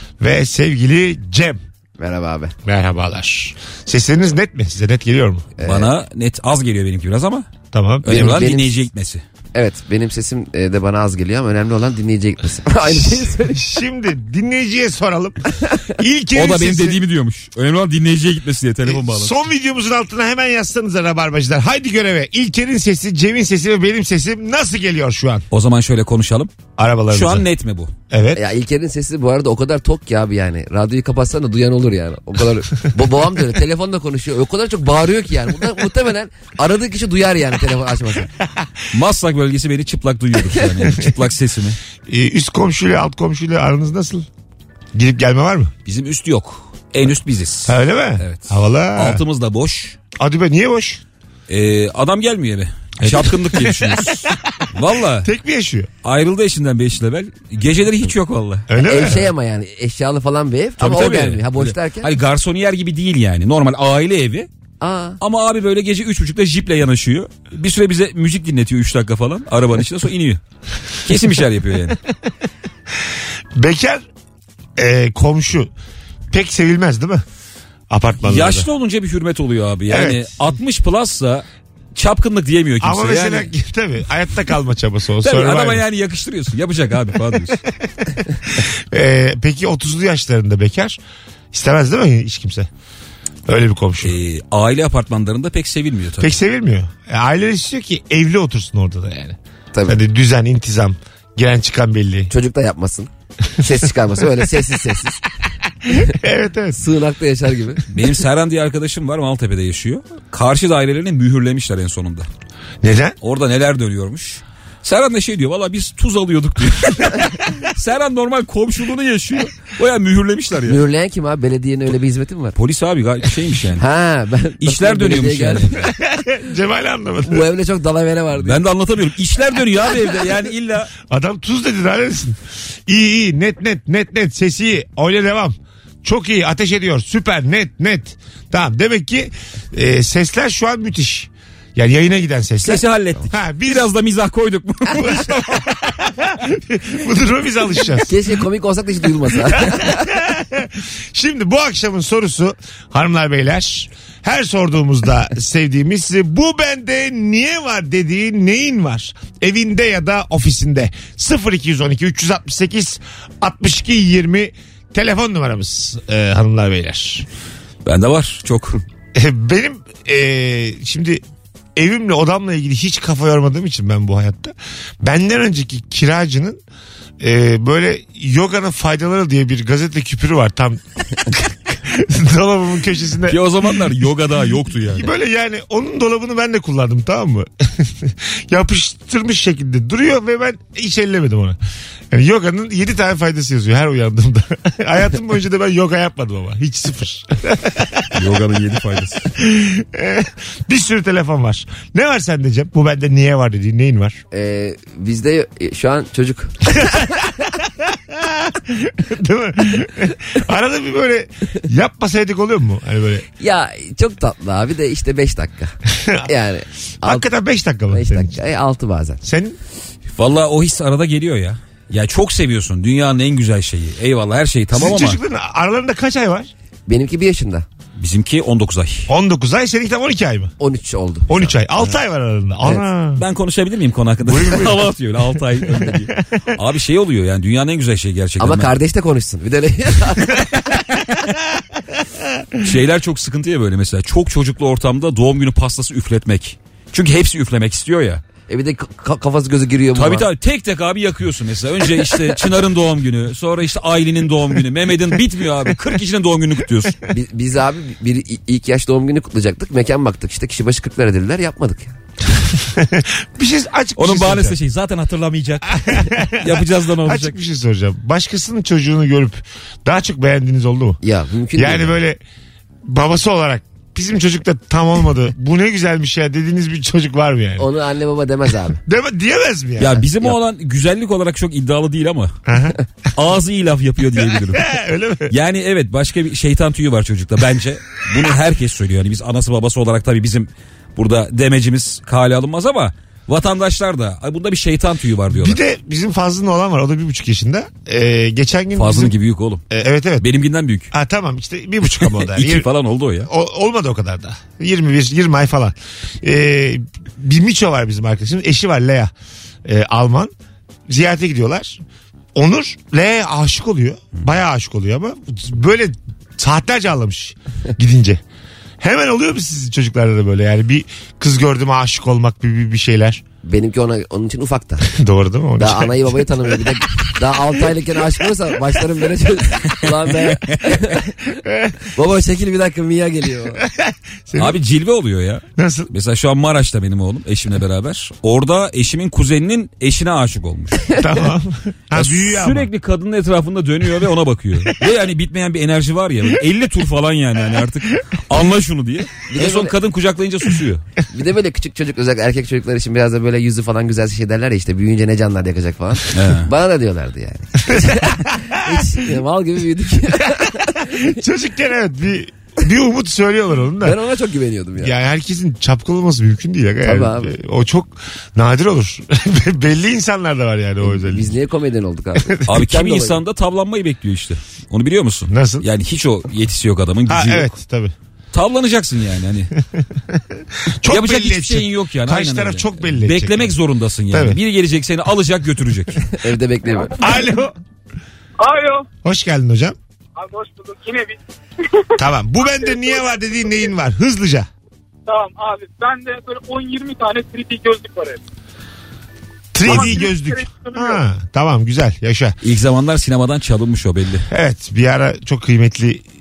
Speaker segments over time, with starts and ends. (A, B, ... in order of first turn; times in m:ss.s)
0:00.2-0:01.6 A
0:02.0-0:02.5 B
0:02.6-0:05.5 A
0:05.6-0:05.9 B
0:05.6-0:07.5 C
0:07.7-0:08.4 A
0:08.0-0:09.2 C
0:08.1-0:08.8 B
0:09.5-0:13.7 B
0:12.9-0:17.0 A
0:16.3-0:19.4 C
0:18.8-0:25.4 A
0:25.5-0:26.5 C
0:26.8-0:27.4 A
0:27.1-0:27.9 C
0:28.1-0:28.4 A
0:28.3-0:38.3 B
0:38.9-0:41.8 C
0:42.1-0:44.3 A
0:44.9-0:45.7 A
0:45.8-0:50.0 C
0:47.7-0:49.2 A
0:50.2-0:51.0 A
0:51.5-0:55.3 C
0:53.0-0:54.7 A
0:55.2-0:55.9 A
0:56.0-0:59.2 C
0:58.7-0:59.3 A
0:58.8-1:02.1 B
1:00.8-1:04.5 C
1:04.8-1:05.2 B
1:05.2-1:10.4 C
1:11.0-1:12.0 C
1:13.6-1:14.0 A
1:14.8-1:15.7 A
1:16.3-1:17.2 A
1:17.9-1:18.7 A
1:18.3-1:23.5 C
1:19.9-1:20.2 A
1:22.8-1:25.8 A
1:25.2-1:27.6 C
1:28.5-1:31.0 A
1:31.5-1:32.7 A
1:33.5-1:34.2 A
1:34.0-1:36.3 C
1:36.2-1:42.3 A
1:39.7-1:40.0 B
1:42.3-1:45.2 B
1:45.8-1:46.8 A
1:46.7-1:47.8 B
1:47.9-1:52.3 C
1:52.8-1:53.2 A
1:53.2-2:00.8 C
2:00.6-2:02.5 B
2:02.5-2:03.8 C
2:03.8-2:05.9 B
2:04.6-2:05.9 C
2:06.0-2:07.4 A
2:07.2-2:08.6 B
2:08.4-2:10.9 C
2:11.0-2:23.9 A
2:22.6-2:25.4 C
2:24.9-2:28.2 A
2:28.0-2:30.1 B
2:29.5-2:47.3 A
2:47.8-2:48.8 C
2:49.1-2:51.2 A
2:51.7-2:56.6 A
2:57.2-3:03.8 A
3:03.3-3:05.1 C
3:04.9-3:11.6 A
3:12.1-3:18.2 A
3:18.1-3:19.3 C
3:19.4-3:24.2 A
3:24.3-3:26.5 B
3:26.7-3:33.2 A
3:33.4-3:35.7 B
3:36.0-3:36.3 A
3:36.3-3:37.2 B
3:37.0-3:38.4 A
3:37.9-3:39.2 B
3:39.2-3:39.6 A
3:40.2-3:45.2 C
3:44.7-3:46.5 A
3:46.9-3:47.6 B
3:48.0-3:49.1 C
3:49.1-3:50.5 A
3:50.6-3:51.6 B
3:51.3-3:53.2 A
3:53.2-3:58.7 C
3:54.2-3:54.9 A
3:55.6-3:56.4 A
3:58.4-4:00.5 B
4:02.6-4:08.2 C
4:08.5-4:10.3 B
4:09.9-4:17.0 C
4:17.1-4:22.0 B
4:22.5-4:24.6 A
4:24.0-4:27.4 C
4:25.7-4:31.0 A
4:31.0-4:32.0 B
4:31.6-4:32.2 A
4:32.8-4:37.7 A
4:37.6-4:38.8 B
4:38.8-4:40.0 A
4:39.8-4:42.3 C
4:42.5-4:42.8 A
4:43.1-4:44.7 C
4:44.5-4:45.3 A
4:45.3-4:55.6 C
4:55.3-4:59.1 A
4:58.7-4:59.6 C
4:59.7-5:00.2 A
5:00.2-5:00.9 C
5:00.9-5:02.7 A
5:02.1-5:03.3 C
5:03.2-5:09.1 A
5:09.6-5:10.3 A
5:10.9-5:11.8 A
5:12.3-5:18.2 A
5:18.8-5:23.2 A
5:23.4-5:24.9 B
5:24.8-5:26.6 A
5:25.6-5:31.1 B
5:31.4-5:31.8 A
5:31.9-5:33.6 B
5:33.7-5:34.6 A
5:34.4-5:40.9 C
5:35.6-5:35.9 A
5:40.9-5:42.7 A
5:41.9-5:50.8 C
5:49.3-5:49.7 B
5:51.1-6:01.1 B
5:56.1-5:56.5 C
5:57.7-5:58.9 A
6:00.1-6:04.0 A
6:03.8-6:04.9 B
6:04.8-6:11.3 A
6:06.8-6:07.4 B
6:10.8-6:13.2 B
6:12.2-6:12.5 A
6:12.5-6:17.5 C
6:15.3-6:15.6 A
6:17.1-6:17.9 A
6:18.3-6:19.5 C
6:20.1-6:23.5 A
6:20.9-6:26.0 C
6:24.1-6:24.4 A
6:26.1-6:26.9 B
6:26.7-6:27.3 D
6:27.0-6:27.5 A
6:28.4-6:28.8 D
6:29.0-6:29.8 A
6:30.2-6:31.2 D
6:32.0-6:34.5 A
6:32.4-6:33.7 D
6:35.1-6:38.2 D
6:39.5-6:42.4 A
6:39.6-6:41.0 D
6:39.6-6:40.0 C
6:42.4-6:44.2 C
6:44.3-6:46.0 A